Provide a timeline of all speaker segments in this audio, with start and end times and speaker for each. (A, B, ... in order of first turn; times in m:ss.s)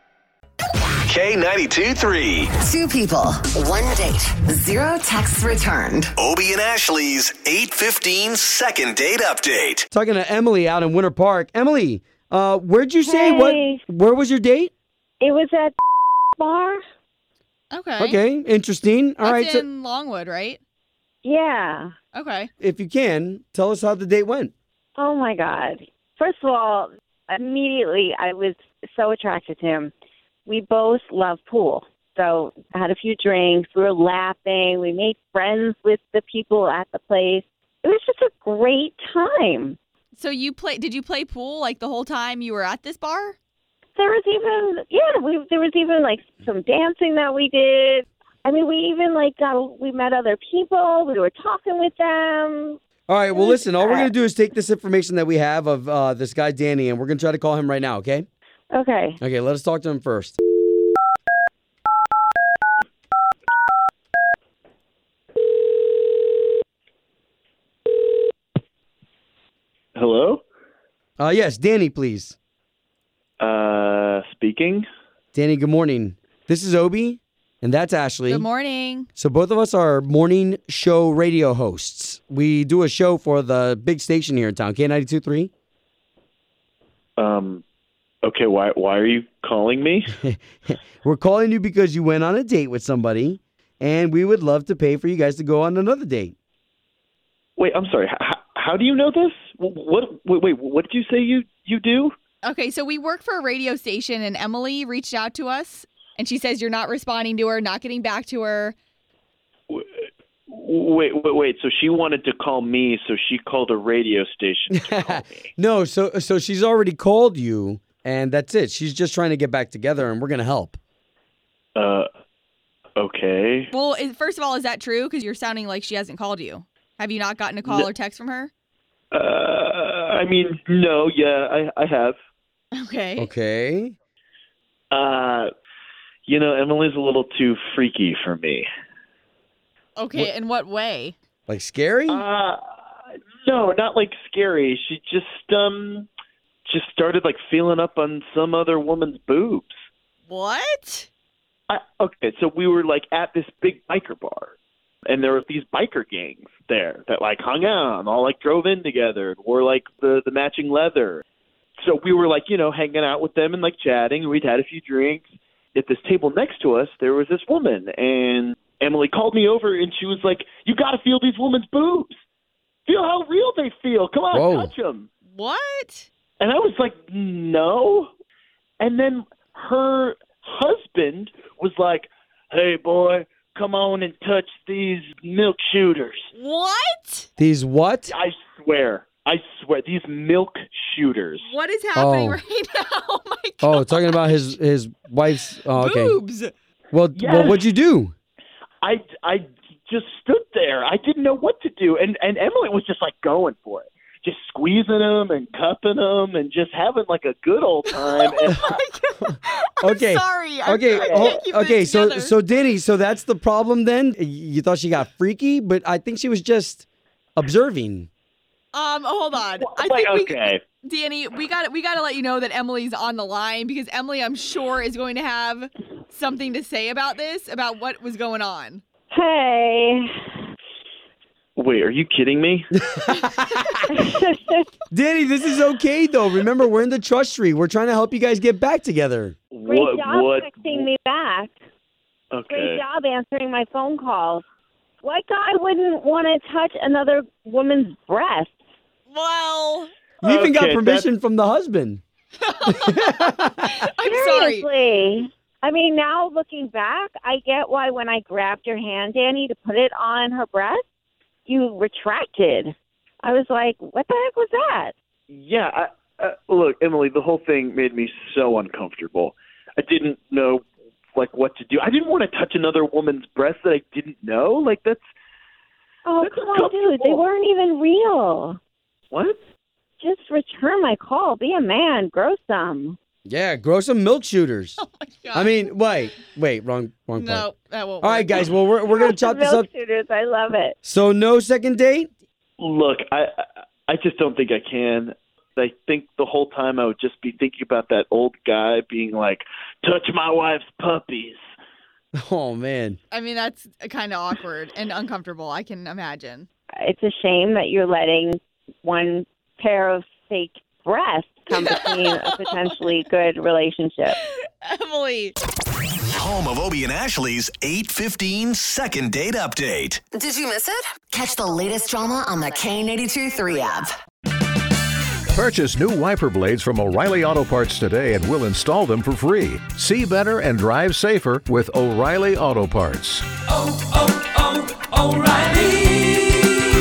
0:01.0-0:02.5 A
0:02.6-0:06.1 B
0:06.2-0:09.9 A
0:09.9-0:14.7 C
0:13.0-0:13.8 D
0:15.2-0:15.8 D
0:16.4-0:16.8 D
0:17.7-0:18.2 E
0:18.0-0:19.7 C
0:19.2-0:20.6 E
0:21.2-0:21.9 D
0:22.1-0:22.5 E
0:22.6-0:24.5 C
0:25.0-0:29.9 D
0:30.5-0:39.8 D
0:40.2-0:43.4 E
0:44.0-0:52.8 D
0:53.1-0:58.3 C
0:53.3-0:54.1 D
0:58.7-0:59.2 D
0:59.2-1:00.4 C
1:09.9-1:10.4 F
1:11.2-1:12.4 C
1:13.4-1:14.8 F
1:15.3-1:18.5 C
1:18.3-1:19.1 E
1:19.2-1:25.5 C
1:27.2-1:27.6 F
1:28.2-1:30.1 F
1:30.1-1:36.3 C
1:37.6-1:42.2 F
1:42.4-1:48.8 E
1:50.5-1:55.5 F
1:54.7-2:00.8 C
2:01.8-2:02.1 F
2:03.0-2:03.7 F
2:03.7-2:08.5 E
2:07.6-2:07.9 F
2:09.1-2:12.2 F
2:12.7-2:13.3 E
2:13.2-2:14.0 C
2:14.9-2:15.5 F
2:16.3-2:18.7 F
2:20.0-2:21.2 E
2:21.5-2:22.2 C
2:22.1-2:22.6 F
2:23.5-2:26.1 F
2:26.7-2:29.8 F
2:30.3-2:31.1 E
2:31.7-2:34.5 F
2:35.1-2:41.2 F
2:41.8-2:52.1 F
2:52.9-2:55.1 F
2:54.3-2:54.7 C
2:55.3-2:56.1 E
2:56.4-2:58.1 F
2:58.8-3:06.3 F
3:06.4-3:07.3 E
3:07.4-3:08.1 C
3:08.1-3:11.5 F
3:11.4-3:14.4 E
3:12.0-3:12.4 C
3:13.6-3:16.2 C
3:15.7-3:16.5 E
3:16.9-3:18.1 C
3:17.2-3:17.7 F
3:18.8-3:28.6 F
3:27.9-3:32.4 E
3:29.8-3:36.8 C
3:31.0-3:31.4 F
3:37.4-3:38.1 C
3:38.7-3:48.8 E
3:39.6-3:40.6 F
3:49.1-3:50.1 D
3:51.6-3:52.7 F
3:52.9-3:53.8 C
3:53.9-3:54.7 D
3:54.9-3:59.3 C
3:59.5-4:00.9 F
3:59.7-4:01.5 D
4:02.3-4:02.8 F
4:02.5-4:04.4 D
4:05.0-4:08.5 D
4:09.1-4:09.9 E
4:10.2-4:12.0 C
4:10.2-4:11.1 F
4:12.4-4:14.7 E
4:12.7-4:13.8 C
4:14.0-4:20.8 D
4:21.4-4:24.9 D
4:25.3-4:30.6 F
4:31.2-4:35.0 F
4:36.1-4:38.6 D
4:36.2-4:37.2 F
4:39.1-4:39.4 F
4:40.0-4:43.0 D
4:43.2-4:44.8 C
4:44.8-4:45.5 E
4:45.3-4:47.4 C
4:47.1-4:48.5 E
4:48.0-4:49.7 C
4:48.9-4:50.8 D
4:50.8-4:52.1 C
4:52.6-5:01.4 F
5:02.2-5:03.0 C
5:03.1-5:06.5 E
5:06.8-5:14.2 D
5:11.5-5:12.8 E
5:14.1-5:15.4 E
5:16.1-5:20.0 A
5:20.1-5:23.9 B
5:25.3-5:33.3 G
5:34.9-5:35.7 F